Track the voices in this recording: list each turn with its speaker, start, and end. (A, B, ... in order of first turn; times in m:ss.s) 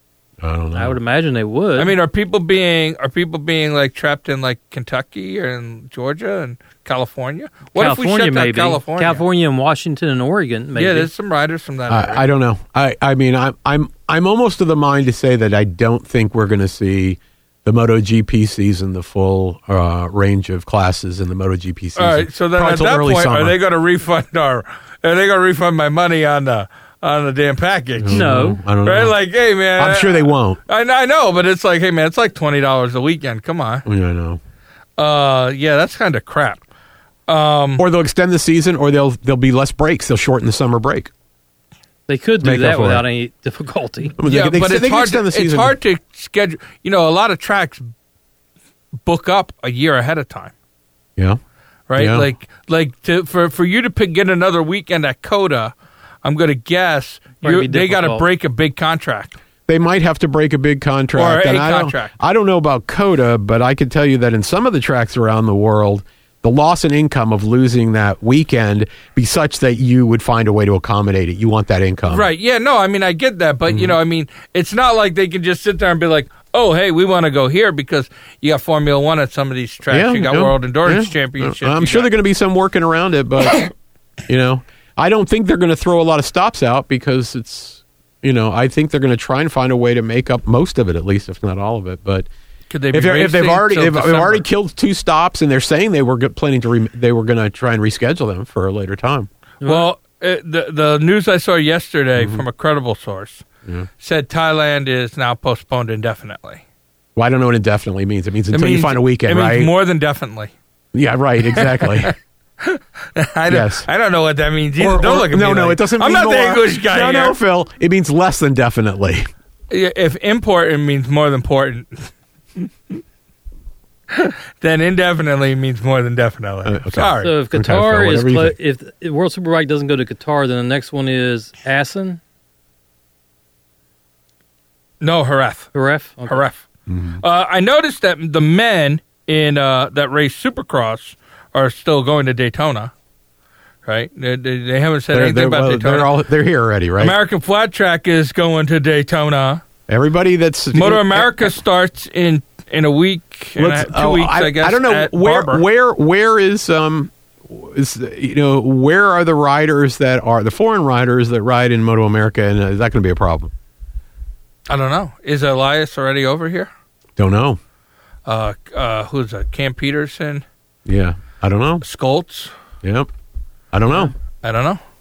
0:00.4-0:01.0 A
0:00.8-0:01.9 B
0:01.8-0:09.2 C
0:07.8-0:11.1 B
0:10.8-0:12.2 C
0:11.9-0:23.6 A
0:22.0-0:33.9 C
0:28.0-0:29.2 A
0:28.1-0:28.6 B
0:29.8-0:30.6 A
0:33.9-0:34.4 A
0:35.0-0:36.6 C
0:37.3-0:37.8 C
0:37.8-0:41.1 A
0:42.1-0:44.2 B
0:42.4-0:43.1 A
0:44.2-0:45.8 A
0:44.2-0:47.9 C
0:49.0-0:50.5 C
0:51.9-0:59.4 C
0:52.0-0:52.3 A
0:57.4-0:58.2 B
0:59.7-1:12.3 A
1:01.2-1:02.1 C
1:12.1-1:22.1 C
1:13.7-1:14.0 A
1:19.9-1:23.7 A
1:24.3-1:32.3 A
1:32.7-1:34.4 C
1:32.9-1:39.3 A
1:39.6-1:39.9 B
1:39.6-1:43.4 C
1:42.2-1:42.4 A
1:44.0-1:46.6 C
1:47.2-1:49.7 A
1:48.5-1:50.5 C
1:50.9-1:52.1 A
1:51.5-1:57.4 C
1:53.5-1:53.9 A
1:54.8-1:59.3 A
1:59.7-2:02.7 C
2:04.1-2:07.4 C
2:06.6-2:08.5 A
2:07.2-2:12.2 B
2:15.0-2:15.7 C
2:15.7-2:16.4 B
2:16.3-2:16.6 C
2:16.9-2:17.2 A
2:17.2-2:22.9 C
2:23.8-2:26.1 C
2:25.1-2:27.2 A
2:27.0-2:29.6 C
2:29.9-2:31.5 A
2:30.7-2:35.6 C
2:33.6-2:43.5 A
2:44.7-2:46.7 C
2:47.2-2:47.6 A
2:48.3-2:50.4 C
2:50.9-2:51.8 A
2:51.8-2:52.5 C
2:52.8-2:53.1 A
2:53.7-2:54.1 A
2:54.4-2:54.8 C